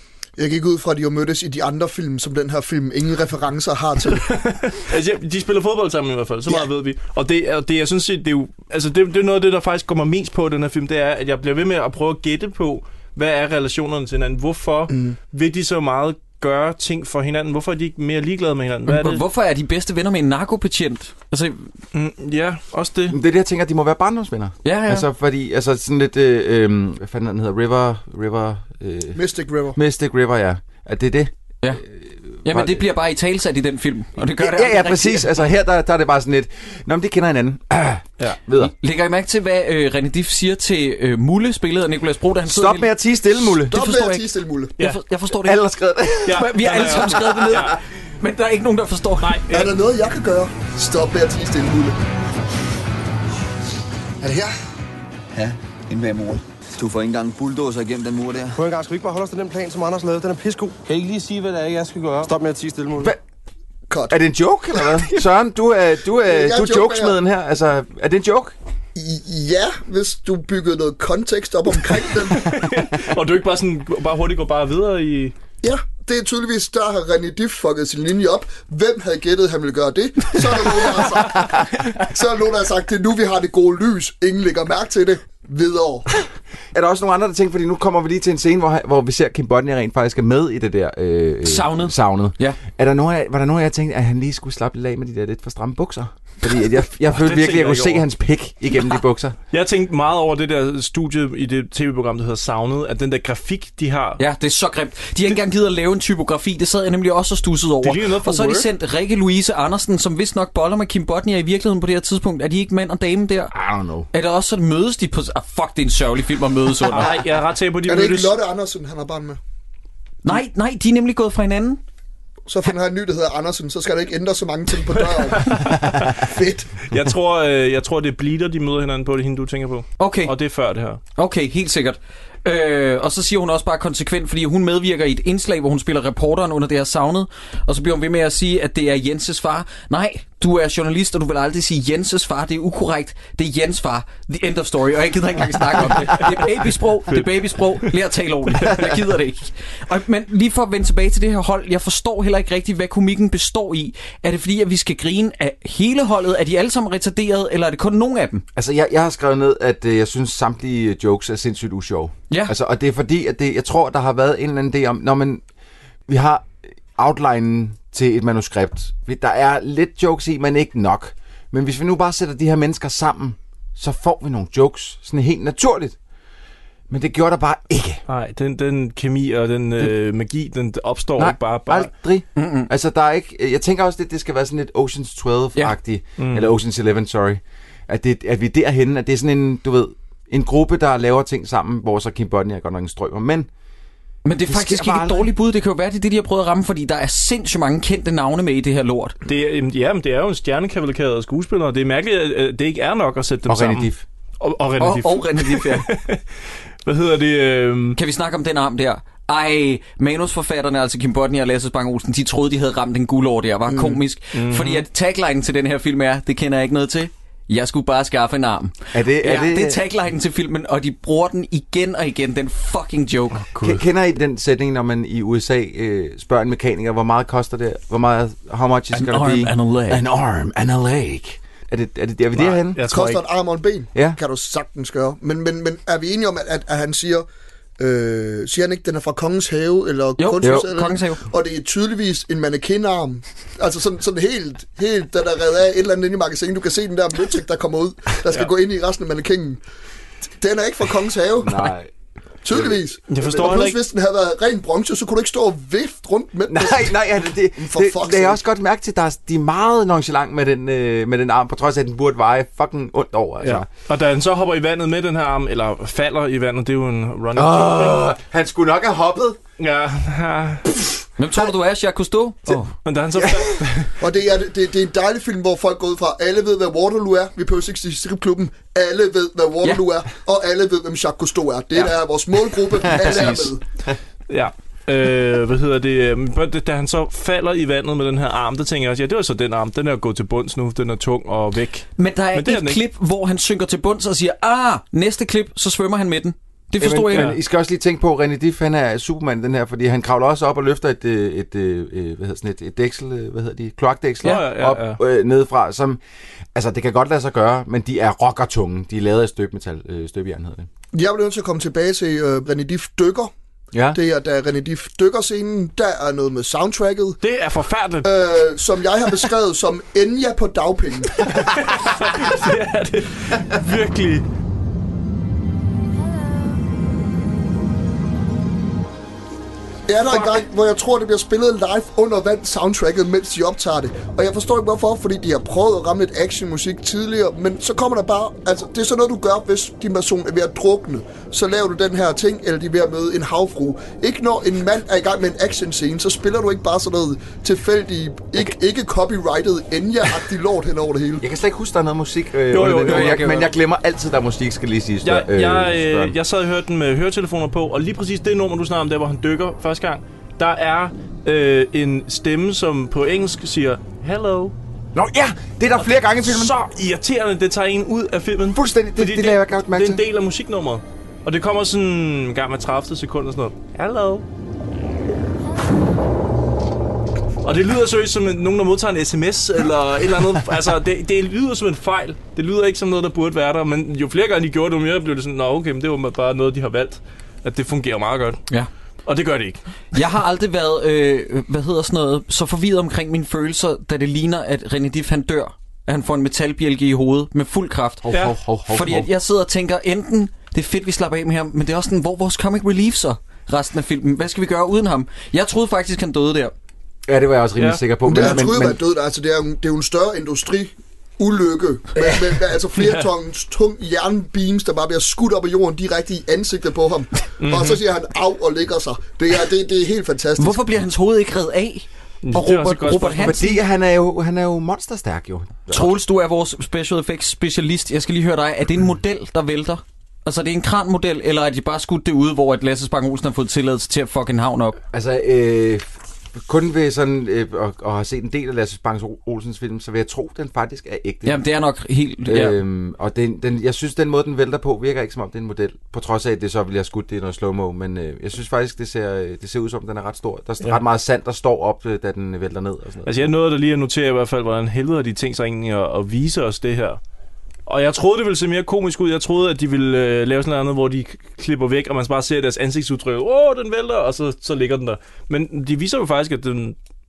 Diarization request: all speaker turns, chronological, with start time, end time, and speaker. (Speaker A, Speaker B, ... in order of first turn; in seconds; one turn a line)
Speaker A: 0.4-4.3
Speaker B: 4.2-19.2
Speaker A: 14.9-15.2
Speaker C: 18.9-21.6
Speaker B: 21.9-23.2
Speaker D: 23.1-29.2
Speaker C: 24.6-25.1
Speaker A: 29.1-29.8
Speaker D: 29.7-32.8
Speaker C: 32.4-35.3
Speaker D: 34.3-38.7
Speaker C: 38.6-42.9
Speaker D: 42.5-43.9
Speaker A: 43.6-44.7
Speaker C: 43.7-45.6
Speaker D: 45.4-47.8
Speaker C: 46.2-49.4
Speaker B: 46.2-47.8
Speaker B: 49.2-49.7
Speaker A: 49.5-52.0
Speaker A: 54.2-54.5
Speaker E: 55.3-58.6
Speaker F: 58.5-63.1
Speaker A: 63.9-64.2
Speaker D: 64.1-68.5
Speaker A: 66.2-67.2
Speaker A: 68.9-72.6
Speaker B: 72.3-75.3
Speaker A: 75.6-86.1
Speaker D: 86.7-99.3
Speaker C: 91.4-92.6
Speaker B: 97.1-98.0
Speaker B: 99.5-104.2
Speaker C: 104.2-113.5
Speaker B: 107.8-108.7
Speaker D: 113.5-114.1
Speaker C: 114.1-117.1
Speaker B: 116.9-118.4
Speaker A: 117.8-119.4
Speaker C: 120.2-121.8
Speaker A: 122.5-126.7
Speaker B: 125.1-126.2
Speaker B: 126.9-131.0
Speaker C: 130.0-130.3
Speaker C: 131.2-158.4
Speaker B: 147.1-147.8
Speaker D: 158.6-165.4
Speaker D: 166.1-176.0
Speaker D: 176.9-178.0
Speaker B: 178.1-181.9
Speaker D: 181.2-193.5
Speaker C: 182.3-182.7
Speaker B: 186.2-186.5
Speaker C: 194.2-199.2
Speaker D: 194.4-195.3
Speaker B: 199.2-206.2
Speaker D: 203.4-204.0
Speaker C: 204.8-205.9
Speaker B: 206.8-208.0
Speaker C: 207.9-223.5
Speaker A: 213.7-214.0
Speaker B: 214.3-214.8
Speaker D: 218.9-219.8
Speaker B: 223.5-223.8
Speaker D: 223.6-232.9
Speaker C: 228.9-230.0
Speaker B: 232.3-233.2
Speaker A: 232.9-237.2
Speaker A: 237.8-249.6
Speaker C: 240.2-241.2
Speaker D: 240.4-240.7
Speaker A: 250.4-251.7
Speaker D: 251.4-251.9
Speaker A: 252.4-257.0
Speaker D: 252.5-252.8
Speaker B: 253.1-253.8
Speaker D: 256.5-263.7
Speaker A: 257.6-258.4
Speaker B: 263.4-268.1
Speaker D: 267.3-269.4
Speaker B: 269.6-270.6
Speaker C: 271.2-272.7
Speaker B: 272.8-273.9
Speaker D: 273.1-273.6
Speaker A: 274.0-283.6
Speaker D: 282.8-283.5
Speaker C: 283.0-283.4
Speaker B: 284.3-292.8
Speaker C: 292.0-297.3
Speaker D: 296.8-306.0
Speaker B: 297.1-297.4
Speaker B: 304.2-305.0
Speaker D: 306.5-310.7
Speaker A: 310.9-313.3
Speaker D: 313.7-314.0
Speaker A: 313.9-317.2
Speaker B: 317.2-318.2
Speaker A: 318.0-321.4
Speaker B: 321.2-324.2
Speaker A: 329.9-351.2
Speaker B: 330.1-330.4
Speaker D: 351.2-356.1
Speaker B: 352.5-353.5
Speaker C: 352.9-353.5
Speaker B: 355.0-364.5
Speaker D: 364.9-366.5
Speaker B: 366.2-374.2
Speaker D: 368.5-370.0
Speaker B: 377.4-388.4
Speaker B: 389.1-389.6
Speaker C: 389.9-398.2
Speaker D: 398.0-399.1
Speaker C: 398.7-406.5
Speaker D: 407.1-408.8
Speaker B: 407.6-407.8
Speaker A: 408.0-420.6
Speaker B: 412.8-413.1
Speaker B: 417.4-417.8
Speaker C: 420.4-423.6
Speaker B: 422.2-423.4
Speaker D: 423.1-425.9
Speaker C: 425.7-434.8
Speaker D: 434.9-441.4
Speaker C: 441.2-442.6
Speaker D: 442.2-453.2
Speaker B: 453.0-457.0
Speaker B: 457.6-466.8